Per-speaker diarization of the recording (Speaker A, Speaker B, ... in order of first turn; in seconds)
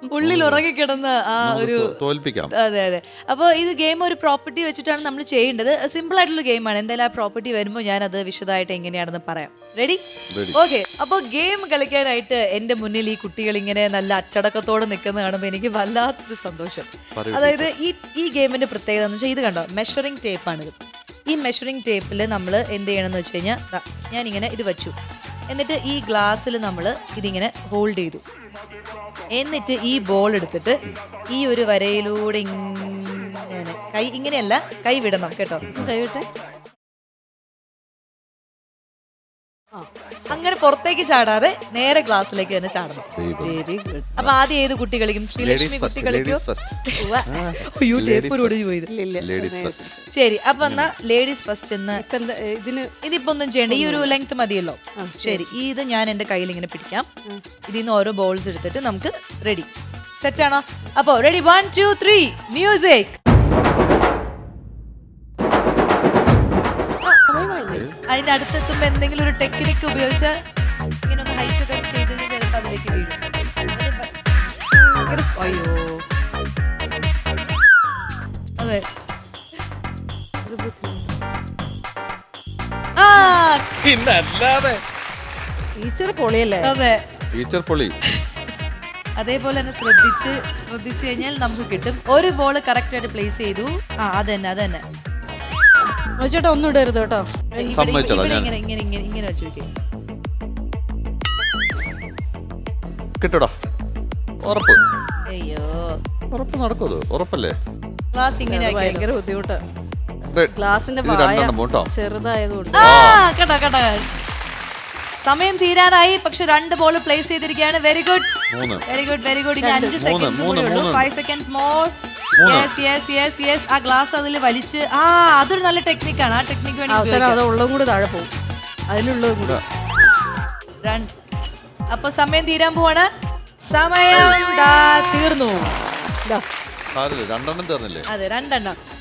Speaker A: 0.1-2.0, 2.5-10.0, 10.5-20.8, 21.3-24.9, 25.5-28.2, 29.3-30.8, 31.3-35.7, 40.3-43.1, 44.2-48.9, 50.1-52.0, 53.0-57.1, 57.7-63.2, 68.1-70.4, 71.1-74.0, 75.1-76.0, 78.6-78.8, 83.0-83.7, 86.6-87.0, 89.2-94.8, 97.5-99.7, 105.3-106.0, 108.1-109.1, 112.7-114.1, 115.2-118.3, 118.9-127.4, 130.8-131.1, 131.9-133.1, 133.7-135.7, 138.1-138.8
Speaker B: 0.2-0.7, 1.4-2.5, 10.3-10.6, 17.2-17.7, 43.1-43.6, 45.4-48.6, 49.2-49.8, 50.6-50.9, 67.7-68.0, 83.8-84.8, 87.3-88.0, 97.6-98.5, 103.2-103.5, 104.4-104.8, 106.3-107.6, 110.3-111.9, 112.8-113.3, 118.5-118.8, 120.0-121.1, 122.4-122.7, 134.1-134.4, 136.9-138.1
Speaker C: 35.7-36.3, 43.4-44.1, 47.0-47.5, 48.9-50.0, 52.0-52.9, 53.7-54.1, 55.0-55.5, 67.0-67.8, 75.4-75.7, 80.4-81.1, 85.8-86.7, 96.0-97.3, 108.5-109.6, 110.5-112.8, 119.6-120.0, 126.9-128.3, 128.9-129.6